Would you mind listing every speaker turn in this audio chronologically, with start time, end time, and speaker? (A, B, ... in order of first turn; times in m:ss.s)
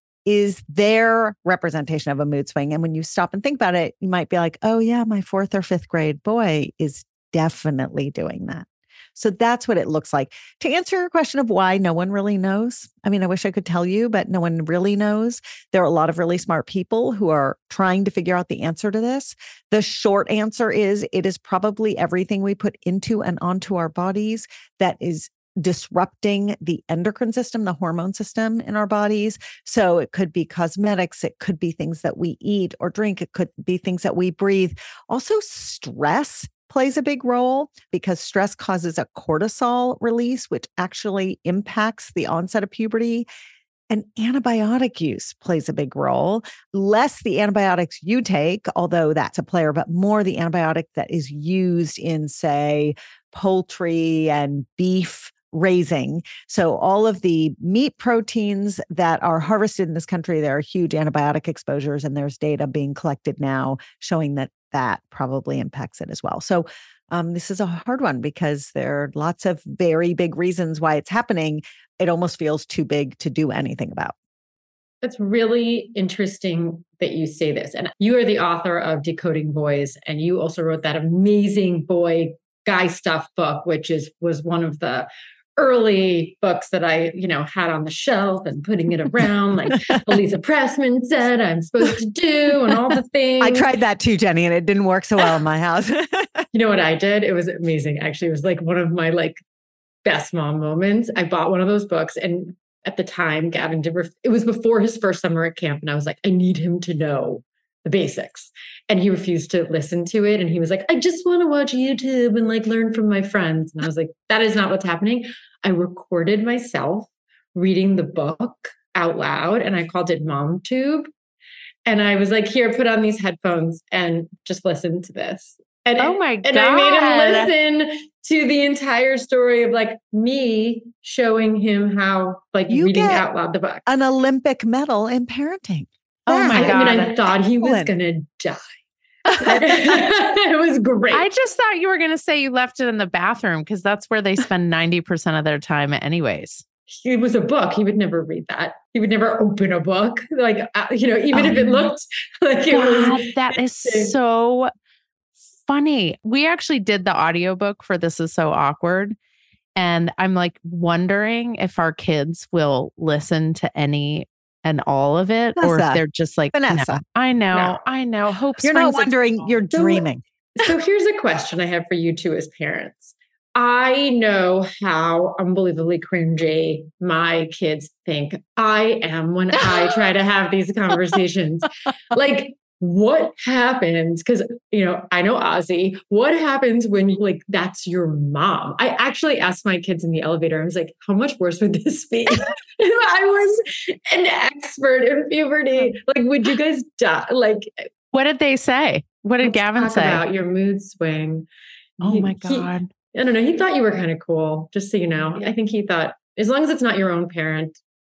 0:00.3-0:43.3 A
0:43.9-1:14.2 A
1:15.0-1:33.7 B
1:33.4-1:36.4 A
1:36.5-1:39.4 B
1:40.0-2:01.1 B
2:01.9-2:13.8 B
2:06.0-2:07.5 C
2:12.7-2:13.2 A
2:13.9-2:17.9 A
2:16.3-2:17.1 C
2:16.5-2:18.8 B
2:19.3-2:19.6 C
2:19.3-2:21.3 B
2:21.1-2:26.6 C
2:27.0-2:34.2 B
2:31.3-2:31.9 C
2:32.7-2:34.7 C
2:35.7-2:39.2 C
2:39.8-2:49.1 C
2:45.6-2:46.0 A
2:46.5-2:47.0 A
2:48.6-2:50.2 A
2:49.7-3:17.7 B
3:18.1-3:20.2 C
3:19.4-3:21.5 B
3:22.0-3:22.9 C
3:22.0-3:27.8 B